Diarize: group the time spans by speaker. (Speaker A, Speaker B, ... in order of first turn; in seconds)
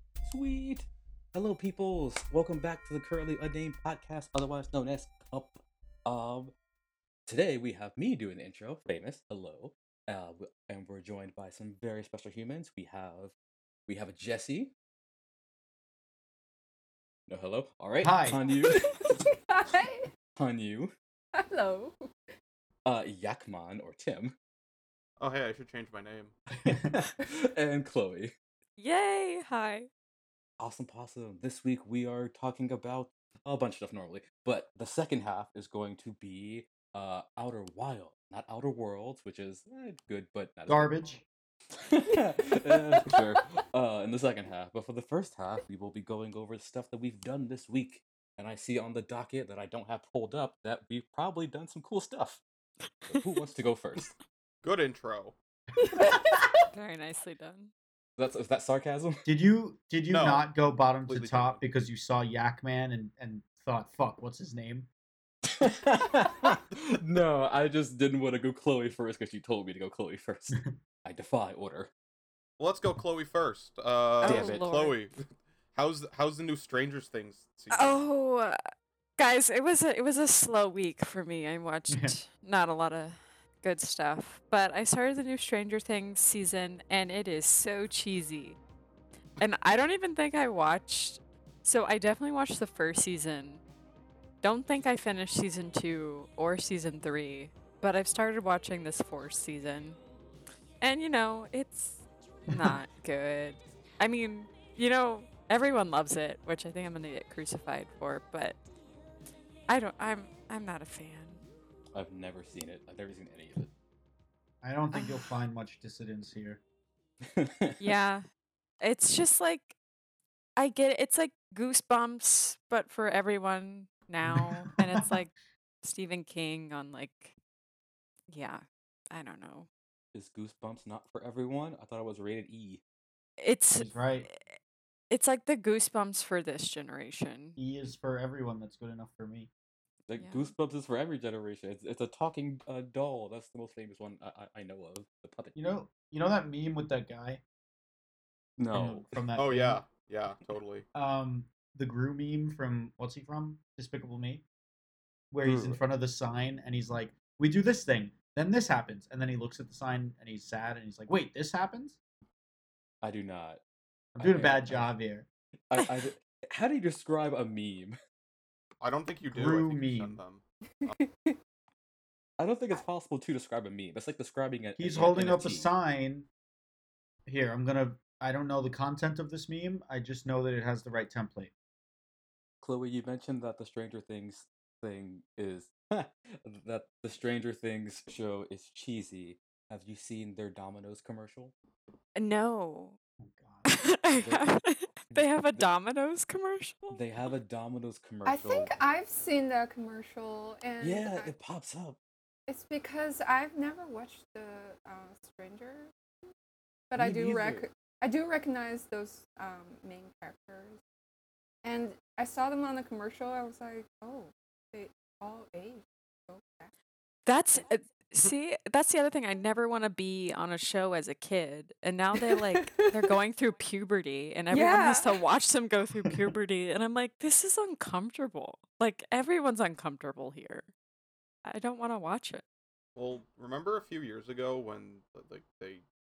Speaker A: 0.2-6.5, 7.3-13.3, 13.9-14.7, 17.3-19.0, 20.4-20.9, 22.9-24.3, 26.7-28.3, 30.6-40.9, 41.8-52.4, 53.1-54.1, 58.2-59.2, 65.5-71.9, 74.2-74.6, 111.9-113.7, 117.2-117.9, 130.1-132.8, 140.1-145.6, 148.6-149.1, 155.4-155.8, 163.0-163.6, 164.2-164.9, 165.7-167.9, 172.4-175.7, 182.6-191.5, 194.1-194.5, 195.1-195.6, 196.9-198.7, 200.8-202.0, 206.9-207.7
Speaker B: 18.0-18.4, 26.6-26.9, 40.7-41.2, 59.2-64.9, 70.5-70.7, 81.9-82.2, 102.5-102.8, 114.6-116.6, 124.2-125.1, 133.7-134.3, 137.6-139.5, 145.5-147.4, 148.7-149.8, 150.9-154.4, 155.3-162.0, 164.2-165.2, 169.3-170.2, 174.8-176.3, 177.2-181.5, 193.2-193.9
Speaker C: 18.6-20.1, 21.3-21.9, 42.1-43.4, 55.8-56.2, 171.0-171.3, 198.2-201.3, 202.5-205.9, 206.9-210.8, 211.6-216.7, 222.2-222.9, 224.5-225.1
Speaker D: 25.2-26.3, 54.6-55.3, 60.1-60.5, 61.0-61.6, 72.6-78.0, 149.3-150.8, 168.8-171.0, 232.9-235.8
Speaker E: 28.8-29.9, 56.7-57.7, 74.2-75.0, 77.7-78.6, 79.2-88.6, 89.4-93.6, 94.4-100.0, 100.8-108.6, 109.7-111.4, 117.8-118.2, 118.8-119.7, 120.6-127.3, 128.3-129.7, 133.4-134.5, 135.1-137.6, 140.2-140.5, 192.2-193.0, 193.7-197.0, 217.2-230.7, 231.4-232.4